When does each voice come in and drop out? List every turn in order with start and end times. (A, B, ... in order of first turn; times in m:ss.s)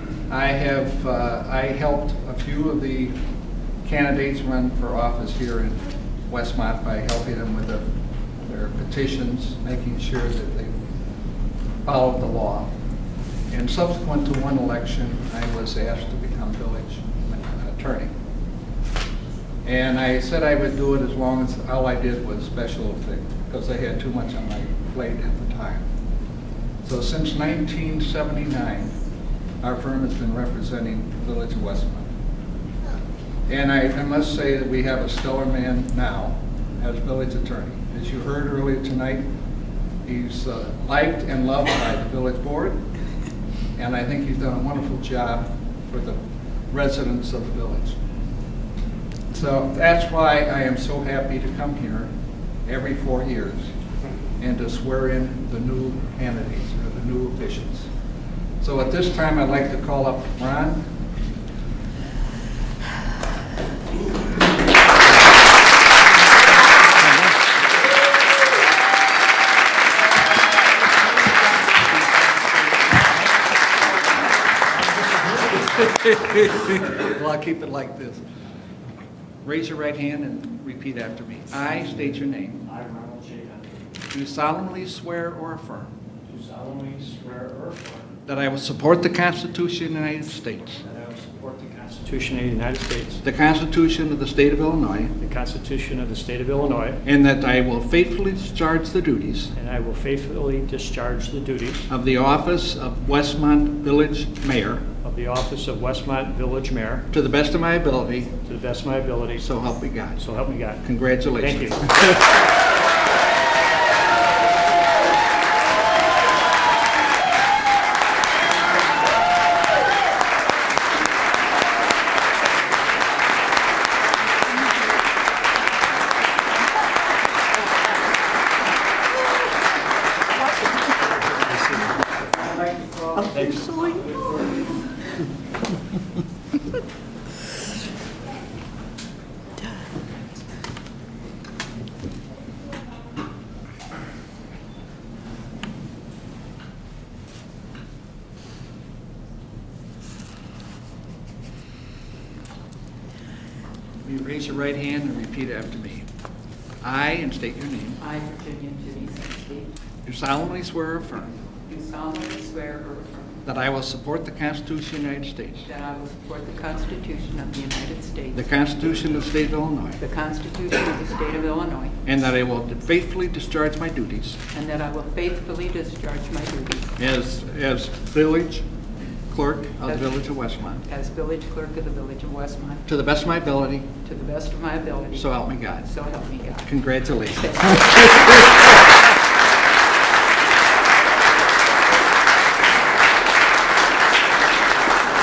0:00.3-0:03.2 A
0:03.8-0:07.8 A
0:08.4-0:10.8 A
0:11.8-0:12.7 A
0:13.5-0:18.1 A
0:19.6-0:25.8 A
0:26.8-0:29.0 A
0:29.6-0:32.1 A
0:33.5-0:39.3 A
0:40.0-0:42.8 A
0:43.8-0:46.2 A
0:46.7-0:48.0 A
0:49.3-0:52.1 A
0:52.6-0:53.7 A
0:54.4-0:57.9 A
0:58.6-1:00.9 A
1:12.0-1:13.1 A
1:14.9-1:15.3 B
1:15.8-1:18.2 A
1:19.4-1:22.6 A
1:22.6-1:23.8 B
1:24.1-1:25.9 A
1:26.3-1:28.2 B
1:28.2-1:30.8 A
1:30.8-1:33.2 B
1:33.2-1:35.1 A
1:35.2-1:37.0 B
1:37.0-1:39.5 A
1:39.5-1:41.9 B
1:41.9-1:44.8 A
1:45.0-1:47.1 B
1:47.1-1:48.3 A
1:48.4-1:49.5 B
1:49.4-1:50.2 A
1:50.2-1:51.9 B
1:50.8-1:52.3 A
2:11.4-2:11.9 B
2:13.3-2:14.0 B
2:34.0-2:36.0 A
2:36.8-2:38.0 A
2:38.0-2:39.7 C
2:40.0-2:41.3 A
2:41.6-2:43.4 C
2:43.4-2:45.7 A
2:45.6-2:48.6 C
2:48.3-2:50.0 A
2:50.0-2:52.0 C
2:52.0-2:54.4 A
2:54.5-2:57.0 C
2:57.0-2:58.7 A
2:59.3-3:00.8 A
2:59.8-3:02.9 C
3:02.9-3:03.9 A
3:03.9-3:08.5 C
3:05.2-3:05.9 A
3:06.6-3:08.7 A